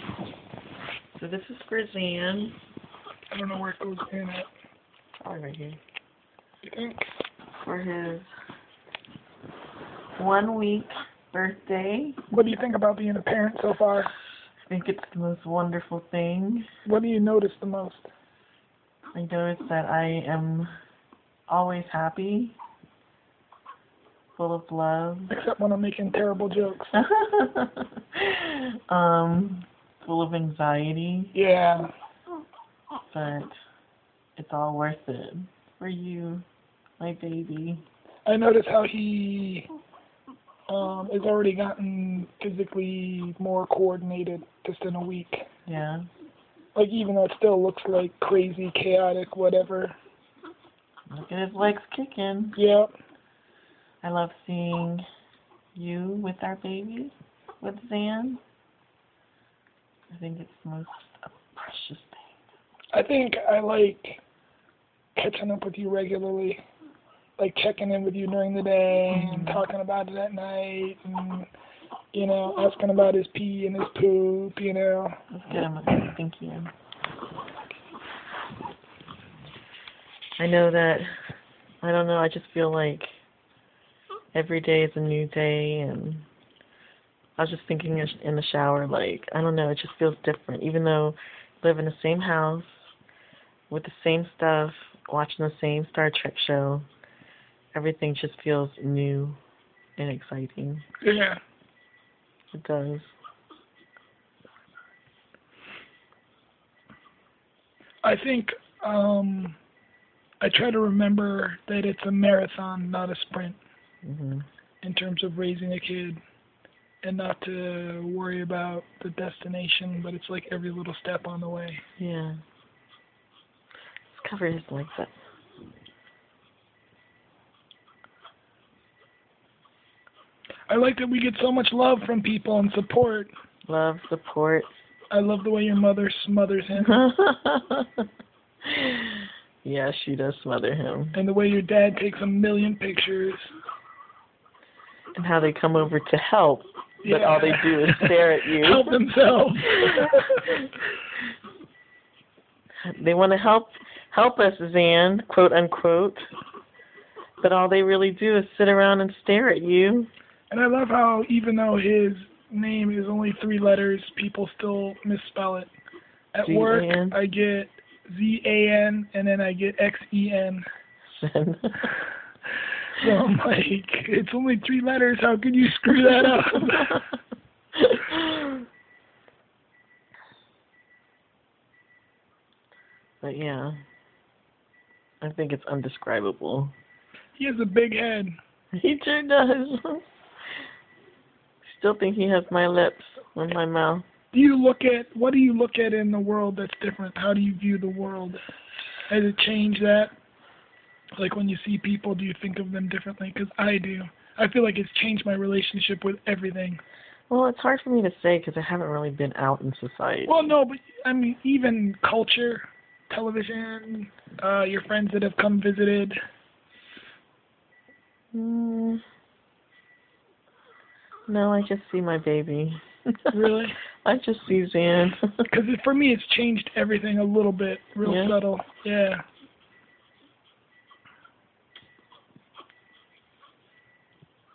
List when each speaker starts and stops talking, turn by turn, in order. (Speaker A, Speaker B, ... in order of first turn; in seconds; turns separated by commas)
Speaker A: 1.2-2.6, Speaker B: 3.3-4.5, Speaker A: 5.2-5.8, Speaker B: 6.6-7.1, Speaker A: 7.6-8.3, Speaker A: 10.2-12.2, Speaker B: 12.3-14.1, Speaker A: 14.7-16.7, Speaker B: 16.9-18.1, Speaker A: 19.1-20.7, Speaker A: 21.5-22.6, Speaker A: 24.4-25.3, Speaker B: 25.3-26.9, Speaker A: 26.9-31.3, Speaker B: 31.3-31.9, Speaker A: 33.1-33.5, Speaker A: 34.4-36.5, Speaker A: 37.0-37.8, Speaker B: 38.3-39.7, Speaker B: 40.7-45.5, Speaker A: 45.7-46.1, Speaker B: 46.8-50.0, Speaker A: 51.1-52.6, Speaker B: 52.5-52.9, Speaker A: 54.0-55.0, Speaker A: 55.8-58.4, Speaker A: 60.1-62.3, Speaker B: 62.9-64.2, Speaker B: 65.2-66.6, Speaker B: 67.4-71.5, Speaker A: 69.1-69.7, Speaker B: 72.1-75.1, Speaker A: 75.3-76.7, Speaker A: 80.4-81.1, Speaker A: 81.8-83.2, Speaker A: 84.3-86.3, Speaker A: 87.4-92.9, Speaker A: 93.7-96.9, Speaker A: 97.7-99.4, Speaker A: 100.0-100.8, Speaker B: 101.0-101.4, Speaker A: 102.5-103.1, Speaker B: 108.0-109.6, Speaker B: 110.4-113.6, Speaker A: 114.0-114.5, Speaker B: 114.8-116.2, Speaker B: 117.0-121.8, Speaker A: 122.0-122.4, Speaker A: 124.1-125.2, Speaker B: 130.7-133.3, Speaker A: 133.7-134.7, Speaker B: 135.1-137.0, Speaker A: 136.8-138.0, Speaker A: 138.7-141.2, Speaker B: 141.1-143.5, Speaker A: 145.2-148.9, Speaker B: 147.0-150.6, Speaker A: 152.9-156.3, Speaker A: 157.4-160.1, Speaker B: 160.5-165.7, Speaker B: 166.3-170.7, Speaker A: 166.4-167.2, Speaker A: 171.2-171.9, Speaker B: 173.0-177.0, Speaker A: 177.9-178.6, Speaker A: 183.2-183.8, Speaker A: 185.2-186.7, Speaker B: 187.4-188.3, Speaker A: 188.7-190.0, Speaker A: 191.6-194.1, Speaker B: 194.3-198.4, Speaker B: 199.1-200.1, Speaker B: 201.2-206.8, Speaker A: 207.3-210.5, Speaker B: 210.3-216.2, Speaker A: 218.3-219.0, Speaker A: 221.3-223.2, Speaker B: 223.3-223.8, Speaker A: 224.0-225.4, Speaker B: 225.5-229.2, Speaker A: 228.0-228.4